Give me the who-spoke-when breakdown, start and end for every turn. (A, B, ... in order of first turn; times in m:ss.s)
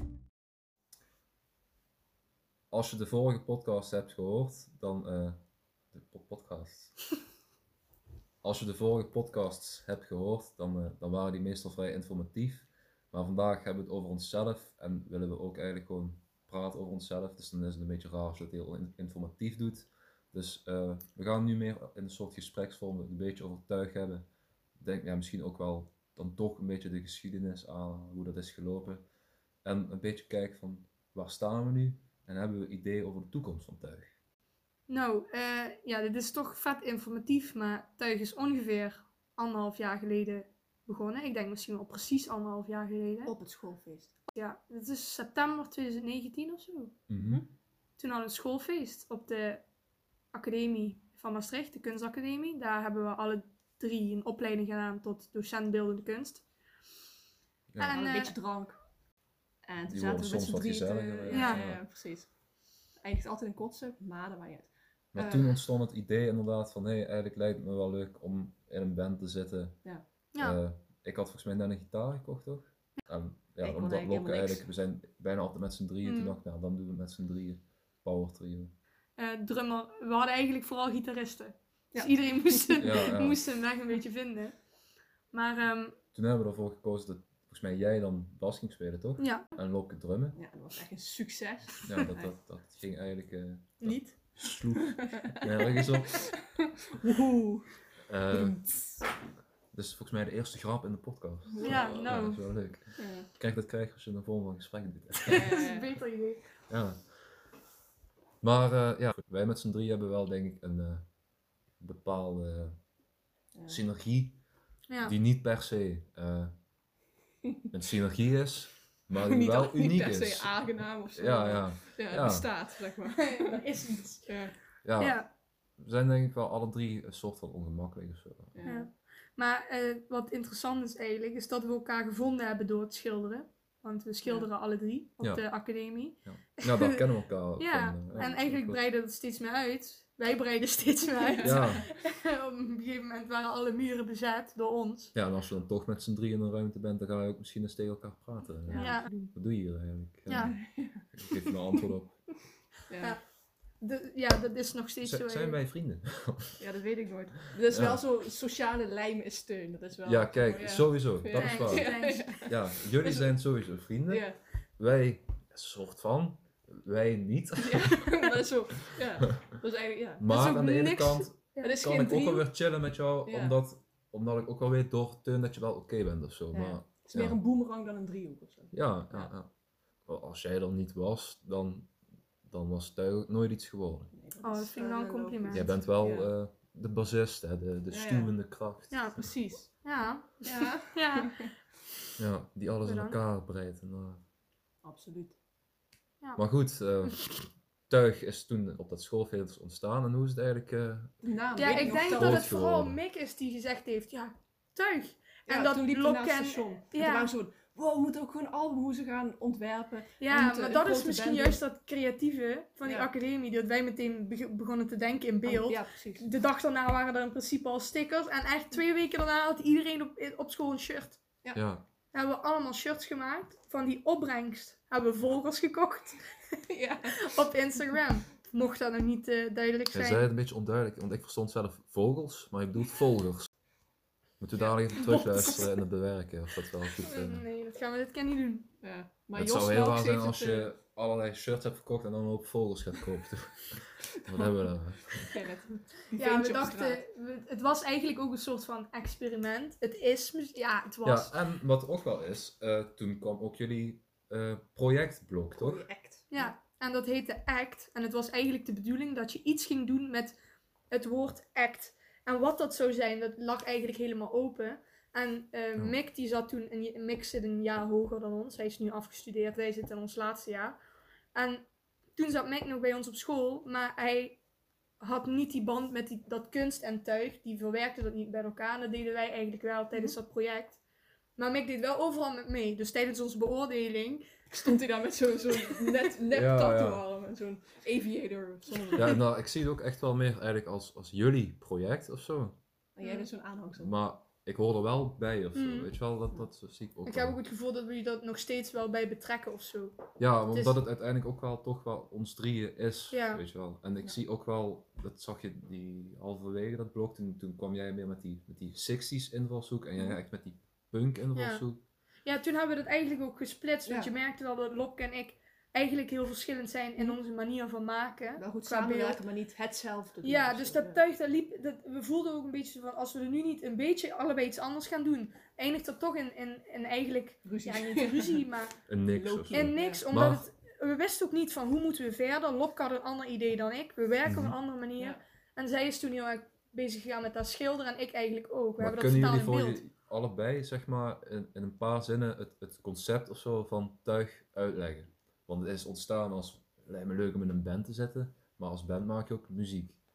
0:02.7-0:05.4 A
0:05.9-0:07.0 A
0:08.4-0:24.2 A
0:24.8-0:29.0 A
0:29.6-0:34.1 A
0:34.9-0:43.3 B
0:43.2-0:44.2 C
0:44.3-0:46.9 B
0:47.1-0:47.4 A
0:47.2-0:47.4 C
0:48.0-0:49.6 B
0:50.3-0:56.4 B
0:57.7-0:58.0 A
0:57.8-0:58.4 B
0:57.9-0:58.8 C
0:59.6-1:02.3 C
0:59.8-1:01.8 A
1:01.3-1:01.6 B
1:03.0-1:05.6 C
1:05.1-1:09.8 A
1:10.3-1:10.6 B
1:10.4-1:18.7 A
1:13.6-1:14.6 C
1:16.0-1:16.4 B
1:19.2-1:24.6 B
1:21.9-1:23.0 C
1:22.8-1:23.4 A
1:25.3-1:26.0 B
1:26.1-1:30.4 A
1:29.2-1:29.5 B
1:30.3-1:32.3 C
1:31.8-1:36.3 A
1:33.8-1:34.2 B
1:34.9-1:37.8 C
1:38.1-1:38.6 A
1:38.3-1:39.1 C
1:39.7-1:45.6 A
1:41.4-1:42.3 C
1:41.6-1:42.4 B
1:43.0-1:43.3 C
1:45.2-1:46.0 C
1:45.4-1:46.4 B
1:46.7-1:47.0 A
1:48.4-1:51.0 A
1:51.8-1:52.8 A
1:53.6-1:53.8 C
1:53.7-1:54.4 A
1:54.9-1:55.2 B
1:55.0-1:56.5 A
1:57.7-2:00.6 A
1:59.1-2:03.7 C
2:01.1-2:02.5 A
2:03.2-2:04.2 B
2:04.2-2:04.6 C
2:04.8-2:05.2 A
2:05.0-2:05.3 B
2:05.8-2:08.6 A
2:08.5-2:08.9 C
2:08.6-2:17.0 B
2:14.2-2:14.5 C
2:15.2-2:15.5 A
2:16.2-2:18.8 A
2:17.6-2:25.2 B
2:21.1-2:21.9 C
2:21.4-2:21.8 A
2:25.2-2:32.2 A
2:28.7-2:29.3 C
2:28.7-2:29.1 B
2:30.3-2:30.5 B
2:30.4-2:31.4 C
2:32.9-2:33.2 C
2:33.8-2:35.6 B
2:35.0-2:36.6 A
2:36.6-2:43.4 C
2:37.7-2:38.0 A
2:40.0-2:44.2 A
2:41.3-2:42.4 B
2:44.1-2:44.4 C
2:44.8-2:48.1 A
2:47.6-2:50.2 C
2:50.2-2:57.4 A
2:50.2-2:51.7 B
2:51.6-2:52.5 C
2:53.2-2:53.6 C
2:56.5-2:59.3 C
2:58.7-2:59.5 A
3:00.1-3:01.9 A
3:02.5-3:04.1 A
3:04.1-3:06.3 C
3:04.4-3:05.7 B
3:05.5-3:09.3 A
3:07.9-3:08.3 C
3:08.9-3:09.2 B
3:09.2-3:09.7 C
3:09.7-3:11.5 B
3:10.4-3:11.5 C
3:12.2-3:14.2 A
3:12.8-3:13.2 B
3:14.8-3:15.4 C
3:16.4-3:23.0 A
3:17.0-3:17.4 B
3:21.2-3:22.6 C
3:21.6-3:27.3 B
3:25.5-3:31.6 C
3:30.2-3:41.2 B
3:32.8-3:33.1 C
3:35.4-3:36.3 C
3:41.5-3:41.8 A
3:42.1-3:46.2 B
3:46.7-3:47.3 C
3:47.1-3:50.3 B
3:49.9-3:53.5 A
3:54.4-3:57.4 A
3:54.6-3:55.8 C
3:57.0-3:58.7 B
3:58.8-4:00.7 C
3:59.4-4:05.4 A
4:04.2-4:07.0 C
4:06.2-4:11.3 B
4:11.0-4:15.9 A
4:15.5-4:16.5 C
4:16.3-4:20.4 B
4:20.9-4:30.8 B
4:31.3-4:34.4 B
4:35.0-4:40.8 B
4:41.4-4:44.2 B
4:44.5-4:49.2 C
4:46.3-4:47.0 A
4:49.0-4:52.6 A
4:53.0-4:54.0 C
4:53.0-4:53.3 B
4:53.8-4:57.4 A
4:55.6-4:55.9 B
4:57.0-5:00.8 B
5:00.2-5:11.8 A
5:03.1-5:03.4 B
5:11.3-5:11.6 B
5:12.2-5:19.2 B
5:13.8-5:14.1 C
5:18.4-5:21.0 C
5:20.2-5:28.8 B
5:27.4-5:28.5 C
5:28.9-5:30.5 A
5:29.1-5:30.0 C
5:29.5-5:39.8 B
5:34.2-5:34.6 A
5:38.8-5:50.0 A